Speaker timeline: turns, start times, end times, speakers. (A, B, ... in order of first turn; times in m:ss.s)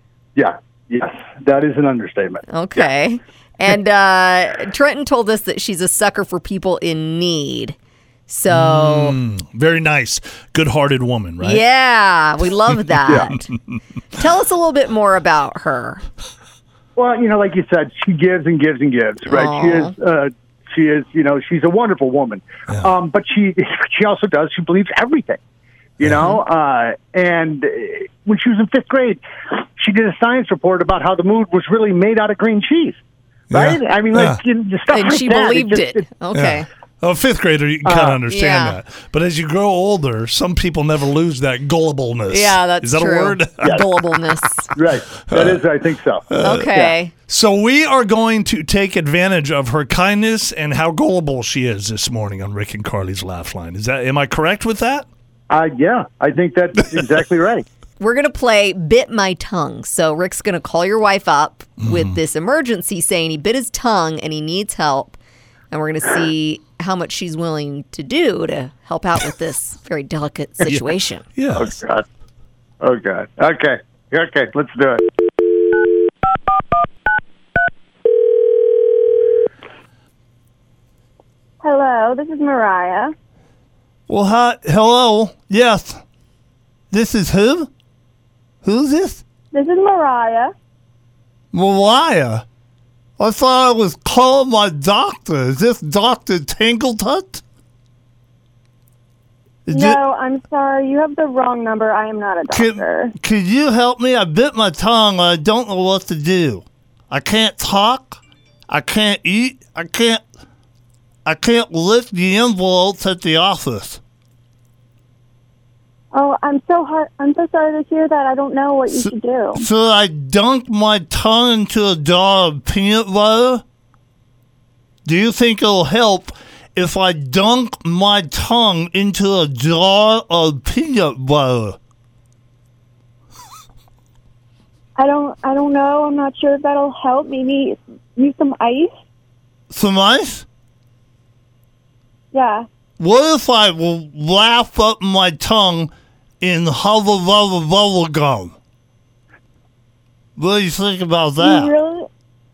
0:00.4-0:02.4 A
0:02.5-0:07.8 B
0:08.3-0:09.2 B
0:08.5-0:11.6 C
0:11.4-0:13.5 B
0:14.1-0:16.0 B
0:17.0-0:25.4 A
0:19.3-0:19.9 B
0:26.0-0:33.0 A
0:33.5-0:34.4 C
0:33.5-0:36.0 A
0:34.9-0:36.7 B
0:36.3-0:43.8 C
0:37.8-0:38.2 A
0:38.3-0:38.8 B
0:42.3-0:44.7 B
0:44.8-0:46.9 A
0:45.3-0:45.6 C
0:46.3-0:46.8 C
0:46.4-0:47.1 B
0:47.3-0:55.1 C
0:55.5-0:57.6 A
0:58.0-1:05.2 B
1:01.8-1:02.2 C
1:05.7-1:11.3 B
1:11.4-1:11.7 C
1:11.5-1:12.0 A
1:12.8-1:15.0 A
1:21.6-1:23.1 D
1:24.1-1:26.0 C
1:26.9-1:27.7 C
1:28.6-1:29.2 C
1:29.5-1:30.5 D
1:31.5-1:32.4 C
1:33.2-1:37.4 C
1:39.7-1:40.0 C
1:39.7-1:43.1 D
1:42.5-1:50.2 C
1:51.3-1:54.0 C
1:56.1-1:59.6 D
1:58.9-2:03.6 C
2:05.0-2:11.8 C
2:15.0-2:18.9 D
2:19.7-2:20.5 C
2:22.3-2:22.7 D
2:23.0-2:28.5 C
2:30.4-2:31.7 C
2:31.4-2:32.1 D